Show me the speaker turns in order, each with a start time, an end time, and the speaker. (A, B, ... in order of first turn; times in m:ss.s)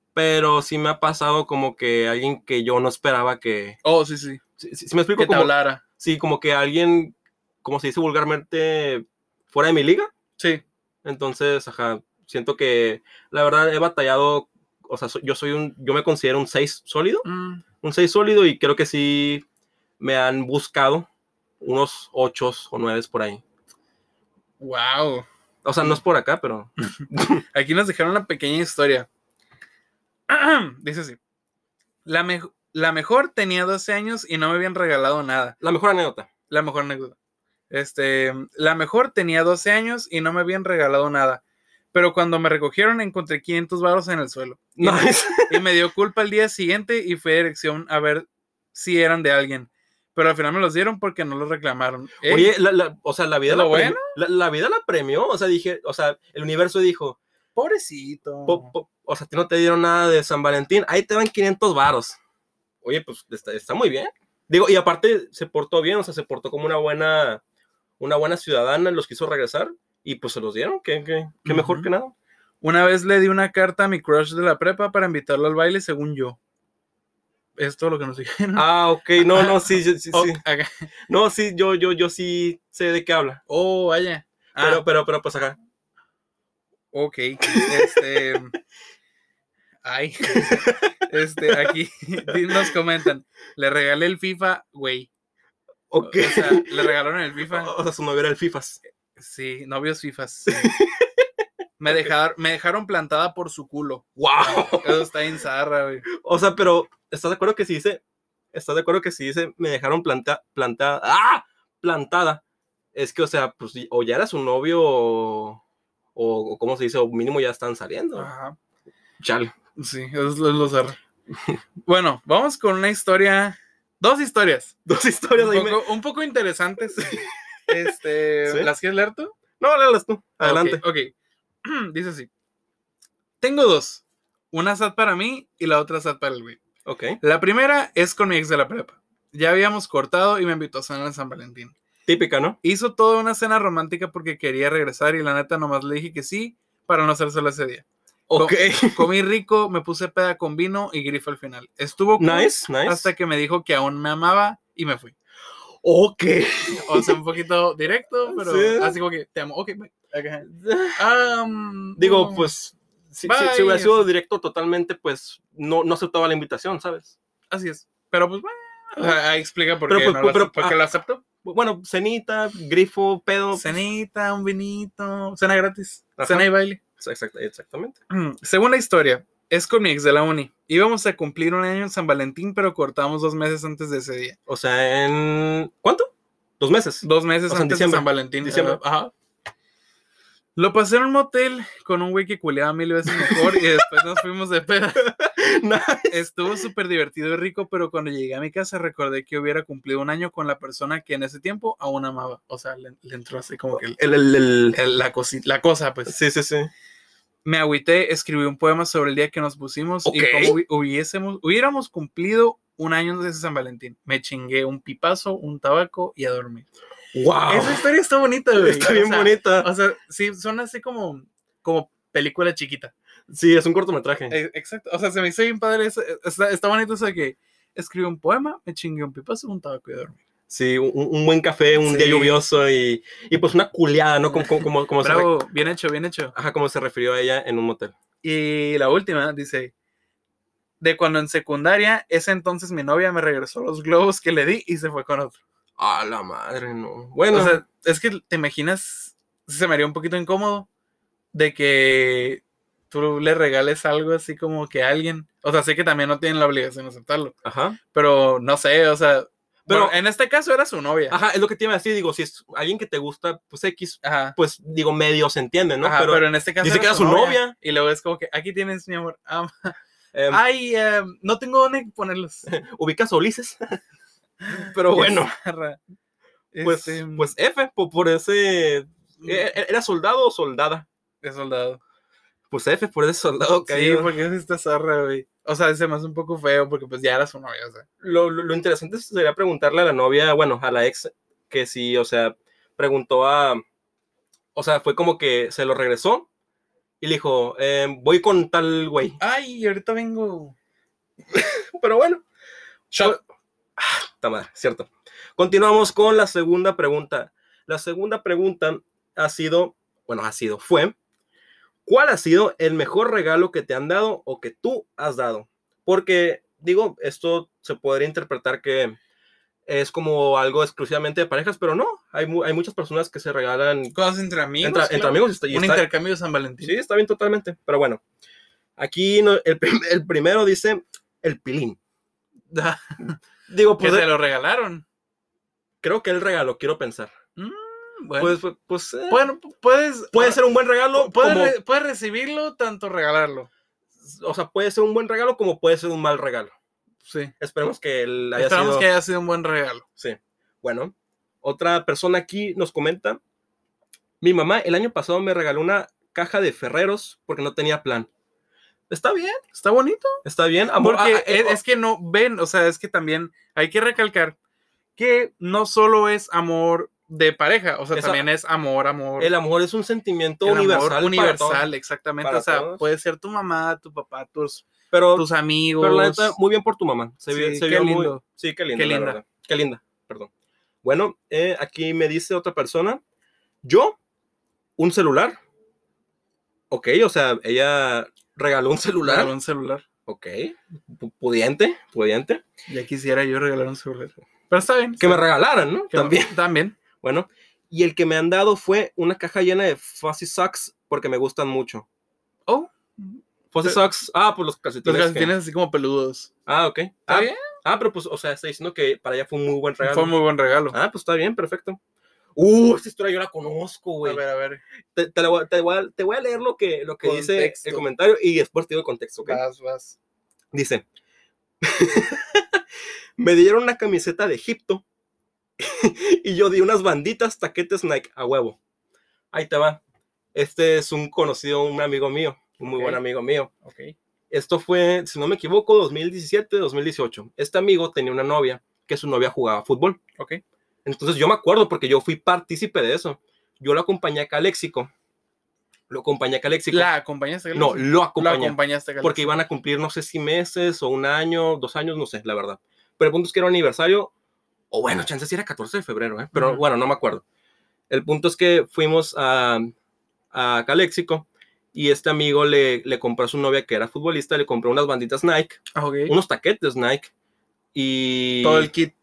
0:00.1-0:03.8 A
0:03.8-0:04.4 B
0:04.6-0:10.1 A
0:05.2-0:05.8 B
0:11.0-0:17.2 A
0:17.2-0:17.6 B
0:17.8-0:19.4 A
0:20.0-0:21.1 A
0:21.6-0:23.4 A
0:24.6-0:25.3 B
0:25.6-0:27.4 A
0:27.5-0:29.1 B
0:30.3-0:31.2 B
0:32.0-0:35.6 B
0:35.6-0:36.3 A
0:36.5-0:37.2 B
0:37.7-0:41.4 B
0:41.9-0:52.5 B
0:44.8-0:45.6 A
0:52.2-0:57.2 A
0:53.5-0:54.1 B
0:57.5-0:58.7 B
0:58.5-1:02.2 A
1:02.8-1:07.4 A
1:08.0-1:12.1 A
1:11.4-1:11.9 B
1:12.6-1:16.4 B
1:17.6-1:18.6 B
1:18.5-1:20.4 A
1:19.2-1:20.9 B
1:21.1-1:23.4 A
1:23.5-1:24.8 B
1:24.6-1:25.6 A
1:26.9-1:28.5 B
1:27.5-1:28.0 A
1:29.8-1:35.1 B
1:30.3-1:31.7 A
1:32.3-1:32.7 A
1:35.9-1:36.9 A
1:36.0-1:37.7 B
1:37.5-1:38.8 A
1:39.2-1:40.7 B
1:40.5-1:41.2 A
1:41.8-1:46.0 B
1:44.2-1:45.1 A
1:46.2-1:48.0 A
1:48.5-1:52.4 A
1:52.9-1:55.6 A
1:56.1-1:58.3 A
1:58.2-1:58.6 B
1:59.2-1:59.5 A
1:59.8-2:01.0 B
2:01.8-2:04.8 B
2:04.9-2:05.8 A
2:05.4-2:09.3 B
2:07.0-2:07.9 A
2:09.6-2:10.8 A
2:10.4-2:11.1 B
2:11.6-2:12.3 B
2:13.4-2:16.6 B
2:16.8-2:17.2 A
2:17.2-2:21.7 B
2:22.1-2:22.6 A
2:22.6-2:27.8 B
2:28.3-2:29.1 A
2:28.4-2:35.1 B
2:32.2-2:33.1 A
2:35.8-2:37.2 A
2:36.8-2:42.5 B
2:38.3-2:39.0 A
2:40.5-2:41.0 A
2:42.0-2:47.1 A
2:43.2-2:44.1 B
2:47.5-2:51.2 B
2:49.9-2:50.8 A
2:51.4-2:53.7 A
2:53.5-2:56.8 B
2:56.2-2:58.0 A
2:58.1-3:04.4 B
3:04.5-3:08.8 A
3:07.0-3:09.1 B
3:10.6-3:15.1 B
3:13.1-3:14.0 A
3:15.0-3:16.2 A
3:16.1-3:24.0 B
3:23.7-3:24.8 A
3:24.7-3:26.2 B
3:26.0-3:26.7 A
3:27.4-3:36.7 B
3:30.0-3:30.6 A
3:37.1-3:37.8 A
3:37.5-3:42.9 B
3:38.6-3:39.7 A
3:43.3-3:44.4 A
3:44.3-3:50.2 B
3:50.5-3:55.3 A
3:51.8-3:52.4 B
3:54.3-3:56.3 B
3:56.3-3:57.9 A
3:58.2-3:59.7 B
4:00.8-4:05.4 B
4:05.8-4:07.6 A
4:07.3-4:10.7 B
4:11.3-4:17.3 B
4:17.4-4:17.8 A
4:17.9-4:21.2 B
4:19.6-4:20.0 A
4:21.1-4:27.5 A
4:24.0-4:24.4 B
4:25.8-4:29.8 B
4:30.1-4:30.4 A
4:30.3-4:32.5 B
4:32.4-4:33.8 A
4:34.4-4:35.8 B
4:34.5-4:35.3 A
4:36.5-4:37.3 B
4:36.6-4:40.8 A
4:39.2-4:39.5 B
4:41.2-4:41.8 B
4:42.5-4:44.1 A
4:43.6-4:47.8 B
4:48.0-4:53.6 A
4:54.5-4:56.3 A
4:57.0-4:59.2 A
4:59.2-5:00.5 B
5:01.3-5:02.2 A
5:02.9-5:03.2 B
5:03.8-5:11.0 A
5:11.8-5:19.0 A
5:19.6-5:23.9 A
5:23.9-5:26.8 B
5:24.6-5:25.8 A
5:26.6-5:28.0 A
5:28.8-5:31.8 A
5:32.5-5:33.2 B
5:33.5-5:34.1 A
5:33.8-5:34.8 B
5:35.8-5:37.1 A
5:37.4-5:38.4 B
5:38.2-5:39.2 A
5:39.1-5:40.4 B
5:40.1-5:41.6 A
5:40.9-5:43.5 B
5:44.0-5:46.5 A
5:47.0-5:47.3 B
5:47.4-5:48.9 A
5:48.4-5:49.8 B
5:50.0-5:53.2 A
5:54.2-5:58.1 A
5:58.9-5:59.4 A
5:59.5-6:00.2 B
6:00.2-6:01.6 A
6:00.8-6:04.4 B
6:05.0-6:09.3 B
6:07.9-6:08.2 A
6:09.2-6:11.7 A
6:10.4-6:16.3 B
6:12.2-6:12.8 A
6:14.9-6:15.3 A
6:15.8-6:20.3 A
6:17.3-6:18.2 B
6:18.7-6:19.2 B
6:20.8-6:23.0 A
6:23.6-6:24.0 A
6:24.8-6:25.4 A
6:26.7-6:29.3 A
6:29.0-6:29.8 B
6:30.1-6:32.4 A
6:32.7-6:35.2 B
6:35.0-6:36.3 A
6:35.9-6:36.8 B
6:37.0-6:41.8 A
6:42.5-6:43.8 B
6:43.5-6:45.3 A
6:44.8-6:46.3 B
6:46.4-6:50.1 A
6:47.1-6:47.4 B
6:49.8-6:50.8 B
6:50.7-6:51.8 A
6:52.4-6:54.2 A
6:54.0-6:54.6 B
6:54.9-6:59.4 A
6:57.0-6:57.8 B
6:59.2-7:00.0 B
7:00.5-7:00.8 A
7:01.6-7:02.6 A
7:03.2-7:04.8 A
7:05.6-7:08.6 A
7:09.3-7:09.8 A
7:10.3-7:13.5 A
7:12.6-7:13.0 B
7:13.6-7:13.9 B
7:14.3-7:20.0 A
7:20.8-7:24.9 A
7:25.9-7:26.9 A
7:26.7-7:29.4 B
7:27.5-7:34.1 A
7:34.7-7:37.2 A
7:36.3-7:36.6 B
7:37.9-7:39.7 A
7:40.3-7:47.1 A
7:45.7-7:46.1 B
7:47.7-7:48.7 A
7:48.4-7:48.9 B